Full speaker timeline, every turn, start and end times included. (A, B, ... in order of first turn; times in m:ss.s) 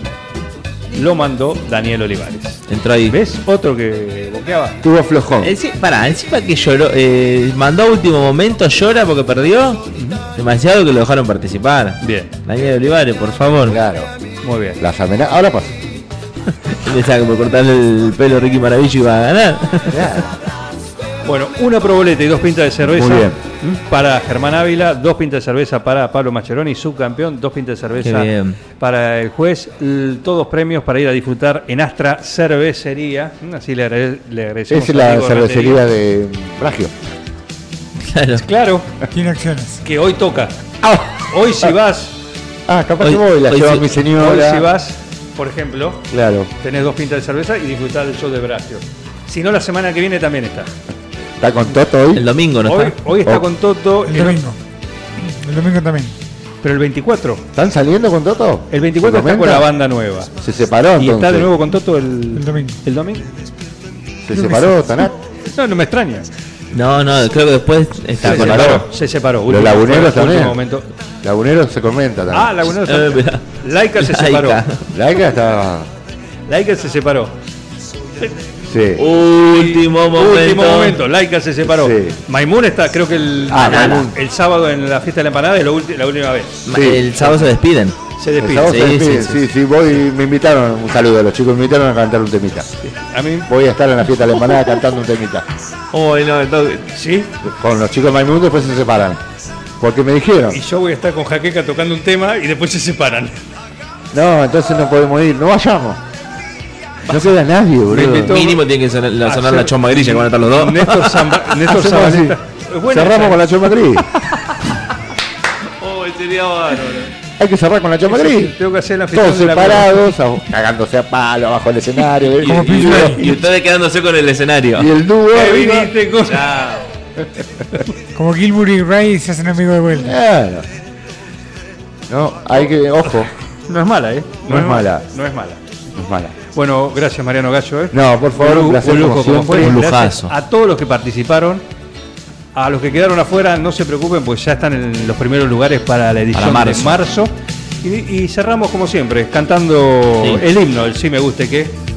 0:00.9-0:04.8 A
0:02.7-0:03.2 B
0:04.8-0:05.5 C
0:05.4-0:09.8 B
0:10.0-0:10.2 A
0:10.4-0:13.8 B
0:12.0-0:12.3 A
0:13.6-0:14.1 C
0:14.4-0:14.8 A
0:14.8-0:15.8 C
0:16.7-0:20.0 B
0:19.9-0:20.3 C
0:21.2-0:35.8 A
0:22.9-0:23.4 C
0:28.0-0:28.6 B
0:34.7-0:36.9 C
0:38.0-0:38.4 B
0:38.4-0:38.9 A
0:39.1-0:39.8 D
0:39.8-0:40.6 A
0:40.8-0:41.2 C
0:41.3-0:42.1 A
0:42.7-0:44.7 C
0:43.0-0:43.8 B
0:44.2-0:46.0 A
0:46.1-0:46.5 C
0:46.6-0:50.7 A
0:51.4-0:52.2 C
0:52.1-0:53.0 B
0:52.6-0:54.4 A
0:54.0-0:54.6 D
0:55.4-0:56.1 D
0:56.6-0:57.4 A
0:57.5-0:59.7 C
0:58.7-1:00.3 A
1:00.4-1:01.5 C
1:01.0-1:03.3 A
1:02.3-1:02.8 D
1:04.2-1:05.1 C
1:04.4-1:04.7 D
1:05.5-1:06.3 A
1:06.7-1:08.8 B
1:08.2-1:08.8 C
1:08.2-1:10.9 A
1:09.5-1:10.6 C
1:11.2-1:12.7 C
1:12.3-1:14.6 A
1:12.8-1:14.9 B
1:14.9-1:15.9 C
1:16.5-1:17.3 A
1:18.7-1:19.0 C
1:19.0-1:21.0 B
1:19.5-1:26.6 A
1:21.6-1:22.2 C
1:23.5-1:24.1 C
1:23.6-1:24.1 B
1:26.7-1:28.0 B
1:26.7-1:27.0 C
1:27.2-1:27.5 A
1:28.2-1:28.8 A
1:28.4-1:32.7 C
1:28.6-1:29.5 B
1:32.8-1:33.5 A
1:33.5-1:35.4 C
1:35.9-1:36.9 B
1:36.9-1:37.3 A
1:37.5-1:39.2 C
1:39.8-1:40.6 C
1:40.5-1:43.4 A
1:44.1-1:46.0 C
1:47.1-1:48.4 C
1:47.9-1:48.6 A
1:47.9-1:51.4 B
1:49.2-1:53.5 A
1:51.6-1:52.4 C
1:52.9-1:54.1 C
1:55.8-1:57.1 B
1:57.4-1:58.5 C
1:58.1-2:00.0 A
1:59.1-2:03.3 C
2:02.4-2:04.9 B
2:02.4-2:03.3 D
2:04.8-2:05.9 C
2:05.3-2:06.6 A
2:06.2-2:06.8 B
2:08.1-2:10.1 D
2:10.0-2:10.7 C
2:12.1-2:13.3 C
2:13.0-2:15.6 A
2:14.5-2:15.0 C
2:16.0-2:16.4 C
2:16.5-2:21.6 A
2:17.9-2:19.8 C
2:19.6-2:20.3 B
2:22.5-2:31.8 A
2:26.3-2:27.0 B